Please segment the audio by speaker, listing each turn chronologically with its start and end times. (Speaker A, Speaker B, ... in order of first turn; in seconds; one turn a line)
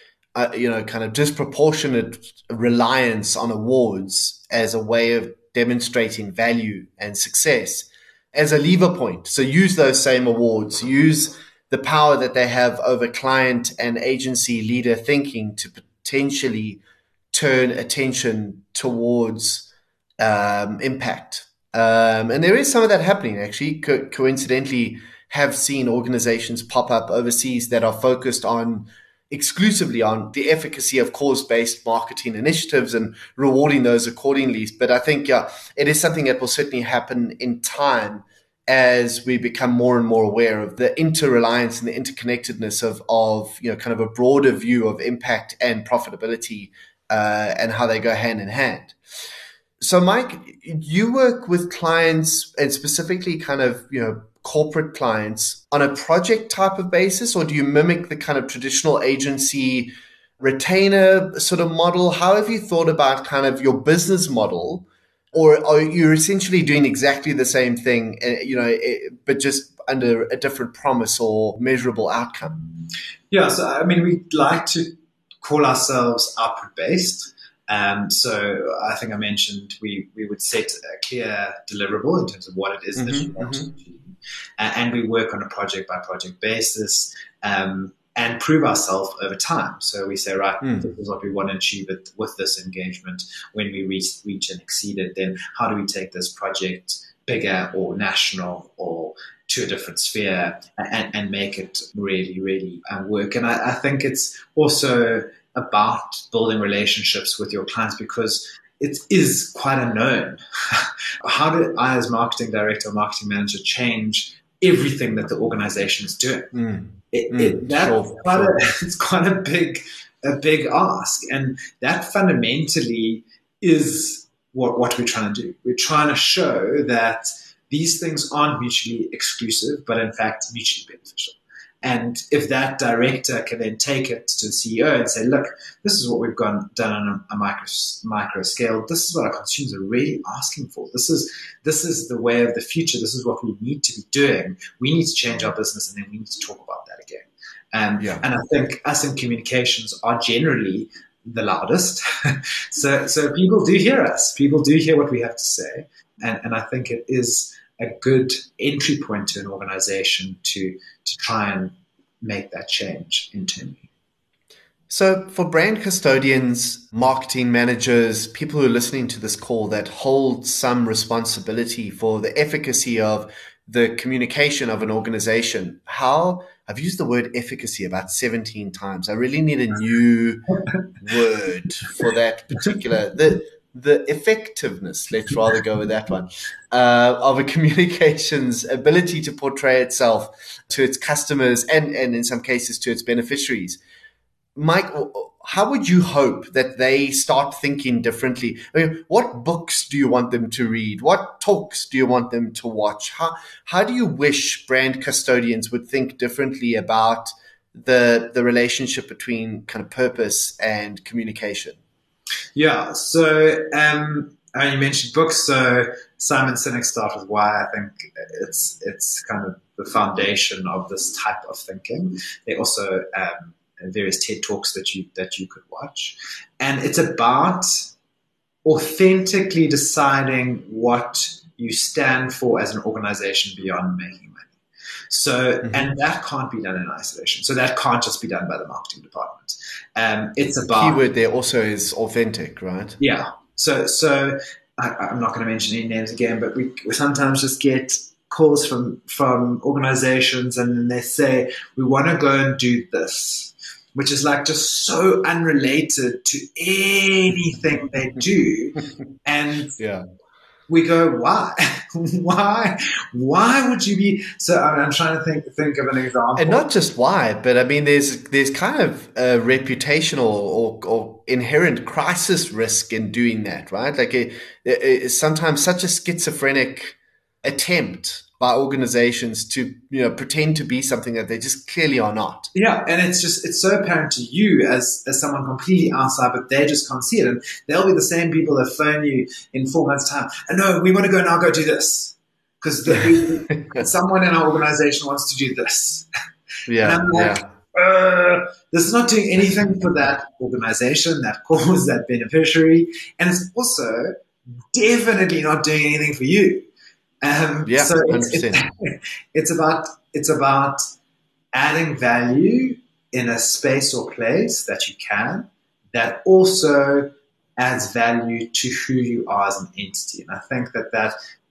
Speaker A: 0.3-19.7
Speaker A: 20.2-49.0
Speaker A: 49.8-72.6
Speaker B: 73.3-116.5
Speaker A: 83.0-83.7
Speaker A: 90.6-90.9
Speaker A: 116.5-118.5
Speaker B: 117.1-163.9
Speaker A: 164.9-193.8
Speaker A: 194.5-211.8
Speaker B: 212.6-227.9
Speaker B: 228.6-234.6
Speaker B: 235.1-241.0
Speaker A: 240.6-243.0
Speaker B: 243.0-259.7
Speaker A: 259.8-260.0
Speaker B: 260.7-266.6
Speaker A: 266.4-282.5
Speaker B: 282.5-296.1
Speaker A: 292.9-293.9
Speaker A: 296.7-297.4
Speaker B: 296.8-304.1
Speaker B: 304.7-306.7
Speaker B: 307.2-310.8
Speaker A: 307.6-308.6
Speaker B: 311.5-321.1